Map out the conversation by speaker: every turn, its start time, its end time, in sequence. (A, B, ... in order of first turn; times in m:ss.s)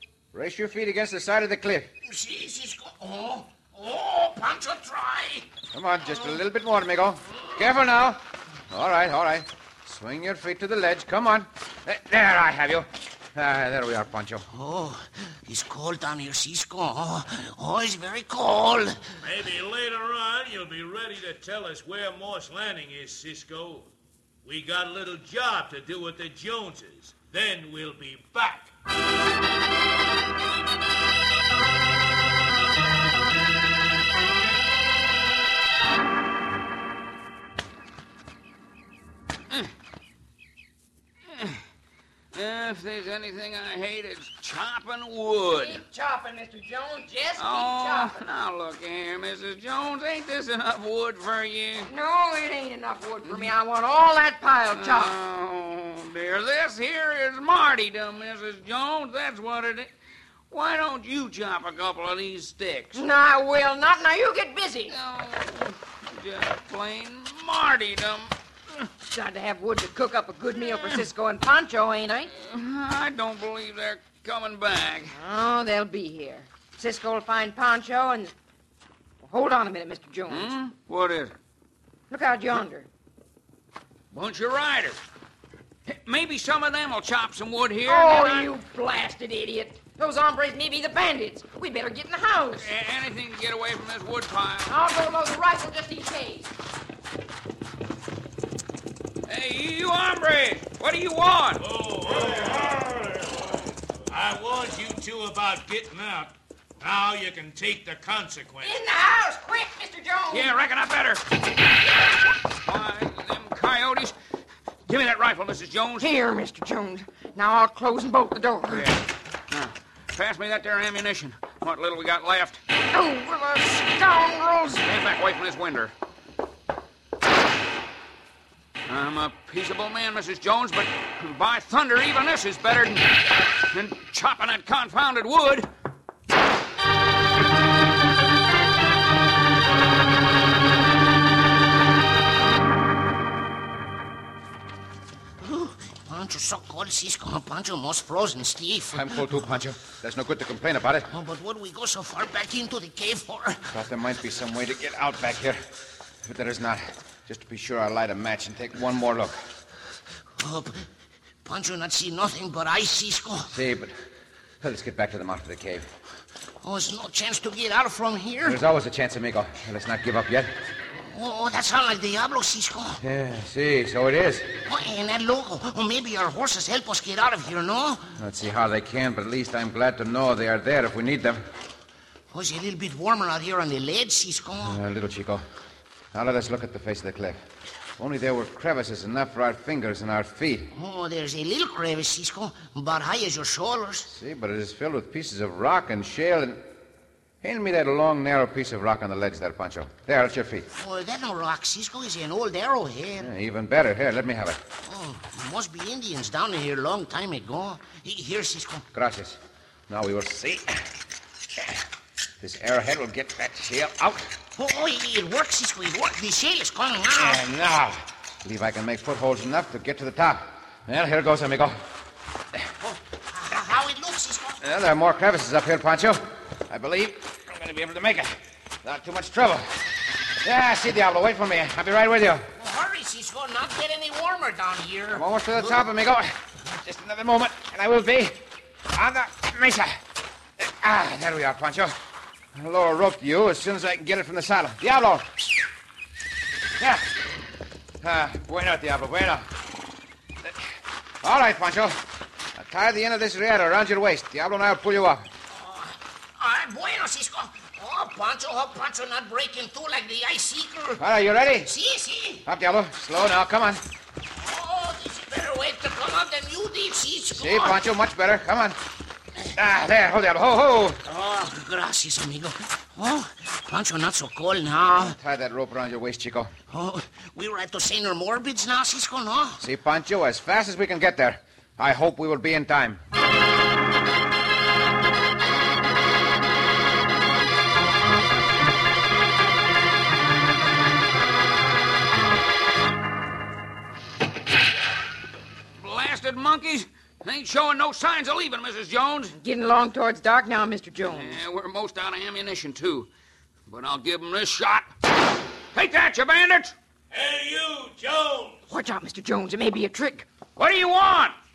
0:00.3-0:01.9 A
0:02.0-0:05.5 B
0:05.7-0:14.4 A
0:14.5-0:19.0 B
0:19.2-0:23.9 C
0:24.4-0:28.7 C
0:41.3-0:41.6 D
0:42.3-0:45.8 D
0:45.5-0:48.2 E
0:47.4-0:51.9 D
0:51.9-0:55.2 E
0:53.2-0:53.5 D
0:54.7-0:59.9 D
1:00.5-1:03.0 D
1:03.0-1:05.0 E
1:04.9-1:08.3 D
1:09.1-1:12.3 E
1:10.6-1:11.1 D
1:12.4-1:15.2 D
1:15.1-1:18.3 E
1:19.2-1:20.5 E
1:20.3-1:21.4 D
1:22.1-1:22.9 E
1:24.1-1:25.0 D
1:25.9-1:28.5 D
1:27.8-1:32.7 E
1:32.5-1:34.8 D
1:34.7-1:36.5 E
1:39.3-1:41.6 D
1:41.6-1:42.9 C
1:44.1-1:48.8 C
1:48.6-1:50.5 E
1:50.3-1:51.2 D
1:51.9-1:54.2 D
1:54.9-1:56.1 D
1:56.0-1:58.9 E
1:58.7-2:02.6 D
2:02.9-2:04.9 E
2:04.8-2:05.9 D
2:08.9-2:13.2 D
2:13.7-2:15.7 D
2:25.4-2:29.2 B
2:28.9-2:31.1 A
2:31.1-2:33.7 B
2:33.7-2:35.6 A
2:36.2-2:39.4 A
2:40.4-2:40.8 B
2:41.4-2:43.5 B
2:43.5-2:43.9 A
2:44.6-2:45.9 A
2:46.6-2:48.6 B
2:48.5-2:50.6 A
2:51.1-2:53.0 B
2:53.0-2:54.6 A
2:54.6-2:58.0 B
2:58.2-3:01.4 A
3:02.3-3:04.8 B
3:04.7-3:05.4 A
3:06.1-3:07.4 A
3:08.0-3:10.7 A
3:10.7-3:14.1 B
3:14.1-3:16.7 A
3:17.4-3:20.7 A
3:20.7-3:23.3 B
3:23.2-3:24.6 A
3:24.8-3:28.8 B
3:28.9-3:30.8 A
3:32.4-3:34.4 A
3:34.6-3:37.4 B
3:37.1-3:41.8 A
3:42.8-3:44.6 B
3:44.6-3:49.8 A
3:50.4-3:52.5 A
3:52.6-3:55.9 B
3:55.1-4:00.0 A
4:00.6-4:02.0 A
4:02.6-4:05.5 A
4:06.8-4:07.1 A
4:08.0-4:09.5 A
4:11.2-4:12.0 A
4:12.6-4:15.3 A
4:15.5-4:21.1 B
4:21.0-4:21.7 A
4:21.6-4:22.4 B
4:22.4-4:23.8 A
4:24.3-4:27.8 B
4:27.3-4:28.8 A
4:29.5-4:31.0 A
4:31.1-4:35.2 B
4:34.9-4:36.5 A
4:36.7-4:39.6 B
4:39.6-4:43.0 A
4:55.8-4:59.4 D
4:59.3-5:01.4 E
5:01.1-5:03.1 D
5:03.7-5:04.9 D
5:05.7-5:06.8 D
5:07.1-5:08.7 C
5:08.7-5:10.3 E
5:10.6-5:11.4 D